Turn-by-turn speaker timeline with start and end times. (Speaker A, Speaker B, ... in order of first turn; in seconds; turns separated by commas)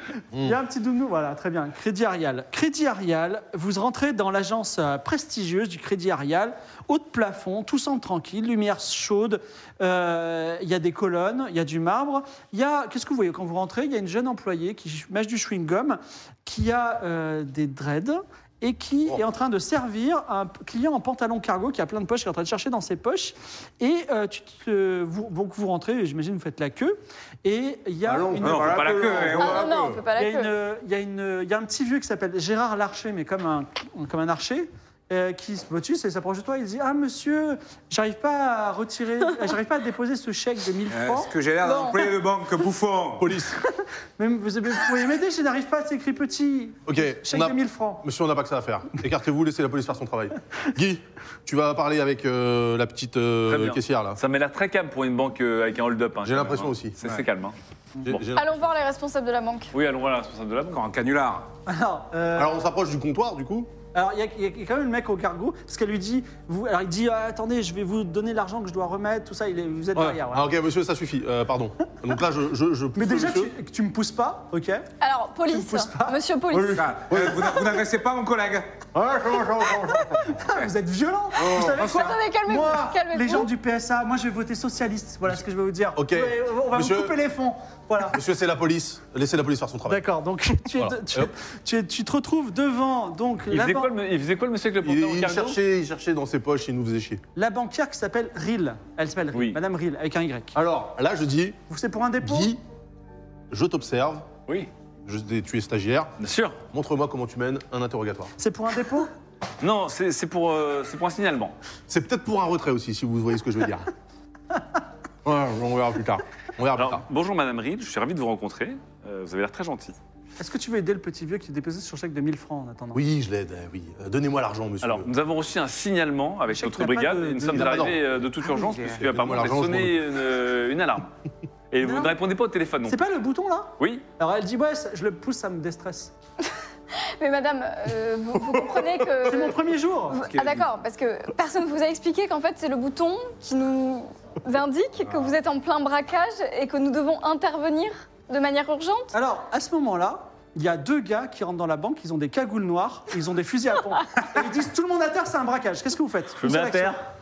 Speaker A: 0.4-29.5, Speaker B: 28.1-30.0, Speaker C: 28.4-29.7, Speaker D: 29.4-30.5, Speaker A: 30.2-41.3, Speaker C: 40.9-43.3, Speaker D: 41.6-42.1, Speaker B: 43.2-43.6, Speaker A: 44.2-48.0, Speaker B: 46.9-54.2, Speaker E: 53.5-57.5, Speaker B: 56.2-57.0, Speaker B: 58.0-58.6, Speaker D: 58.3-59.7, Speaker E: 59.7-60.8, Speaker C: 60.7-61.5, Speaker A: 61.7-62.7, Speaker B: 62.4-63.7, Speaker A: 63.9-70.5, Speaker B: 70.0-73.5, Speaker A: 73.0-74.9, Speaker D: 75.0-76.8, Speaker A: 75.5-76.2, Speaker B: 76.5-77.5, Speaker C: 76.7-78.8, Speaker B: 78.9-80.3, Speaker A: 80.3-88.2, Speaker C: 80.4-80.7, Speaker B: 81.4-81.8, Speaker D: 81.7-83.5, Speaker C: 81.8-82.1, Speaker B: 86.0-87.2, Speaker B: 88.1-90.0, Speaker A: 89.9-93.9, Speaker B: 90.7-91.3, Speaker E: 93.5-95.6, Speaker B: 94.8-97.2, Speaker A: 97.4-100.5, Speaker E: 99.3-99.6, Speaker B: 100.5-101.6, Speaker A: 101.7-102.5, Speaker B: 102.2-102.6, Speaker B: 103.5-104.3, Speaker B: 105.0-106.1, Speaker E: 106.2-106.6, Speaker B: 106.7-108.3, Speaker A: 108.4-109.1, Speaker E: 109.6-111.5, Speaker B: 111.9-113.9, Speaker B: 115.2-117.0, Speaker E: 116.8-120.0, Speaker A: 120.4-123.0, Speaker B: 122.9-125.1, Speaker E: 124.8-131.1, Speaker A: 126.5-127.9, Speaker B: 127.5-128.0, Speaker C: 128.6-129.0, Speaker B: 129.0-130.0, Speaker E: 131.7-133.0, Speaker A: 131.8-132.2, Speaker A: 132.9-136.1, Speaker E: 133.8-134.0, Speaker D: 136.4-139.6, Speaker B: 138.5-139.2, Speaker A: 139.3-140.2, Speaker D: 140.1-149.1, Speaker C: 140.2-140.7, Speaker A: 149.1-157.0, Speaker E: 156.4-157.0